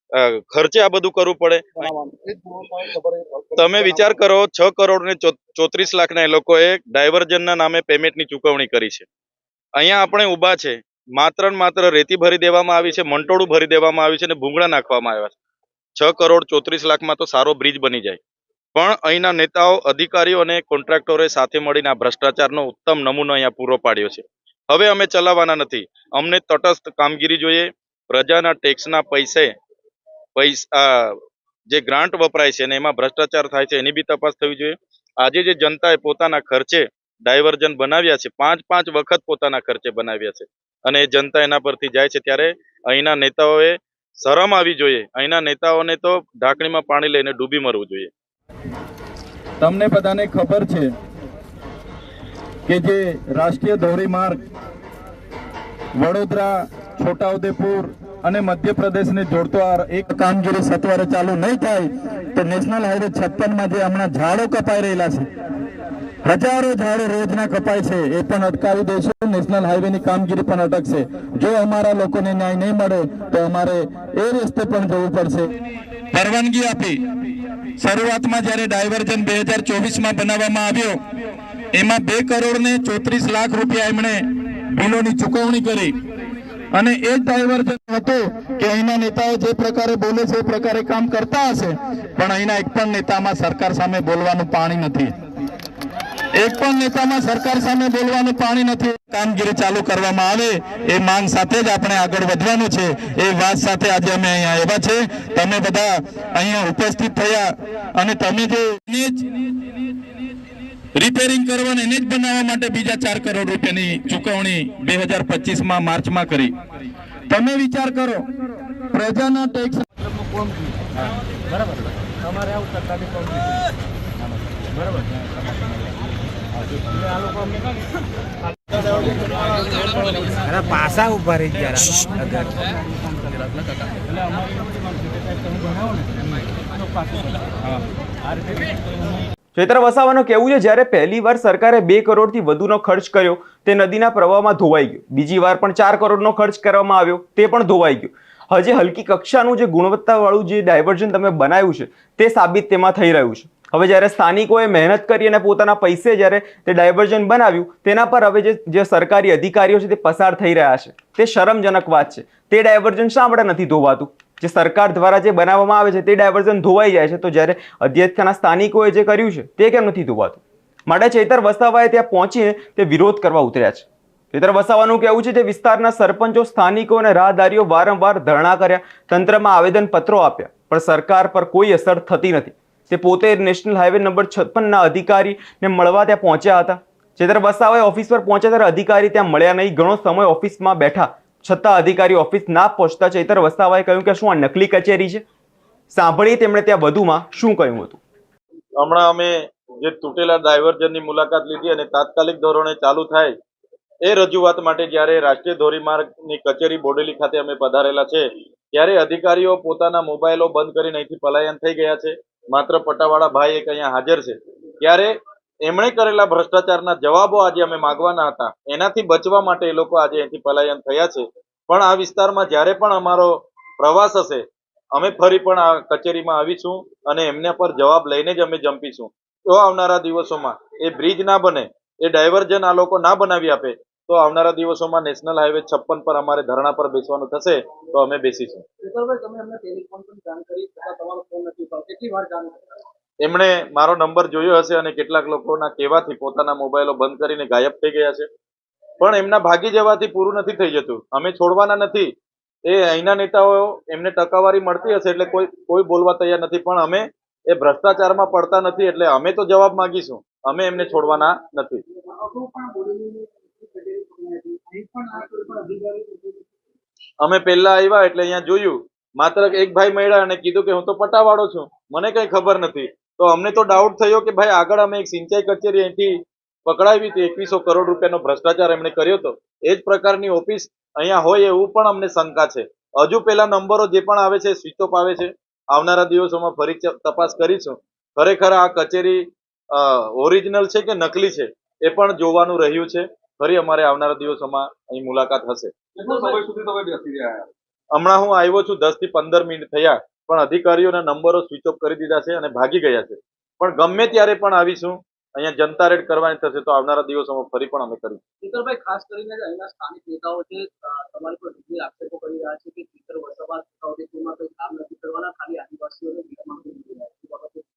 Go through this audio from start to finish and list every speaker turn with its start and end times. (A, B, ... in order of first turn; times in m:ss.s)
0:00.2-0:01.9 A
0:01.8-0:04.1 B
0:03.6-0:09.1 A
0:09.8-0:15.4 A
0:16.0-0:18.2 A
0:18.8-0:29.5 A
0:30.4-0:31.2 A
0:31.7-0:48.1 A
0:49.6-0:50.9 C
0:52.7-0:54.4 C
0:56.0-1:05.3 C
1:06.2-1:15.5 C
1:16.1-1:17.0 C
1:17.8-1:21.0 C
1:21.7-1:25.9 C
1:26.7-1:35.1 C
1:36.4-1:49.2 C
1:51.0-1:56.6 C
1:57.3-1:58.2 C
1:58.9-1:59.8 C
2:10.4-2:12.7 D
2:19.6-3:15.2 E
3:15.9-3:18.0 E
3:18.8-3:23.3 A
3:24.0-3:35.1 A
3:35.7-3:58.6 A
3:58.8-4:02.6 B
4:03.2-4:08.3 A
4:09.0-4:12.1 A
4:12.7-4:21.8 A
4:22.1-4:26.4 B
4:27.2-4:36.1 A
4:36.7-4:49.2 A
4:49.7-4:57.4 A
4:57.9-5:08.2 A
5:08.4-5:17.6 B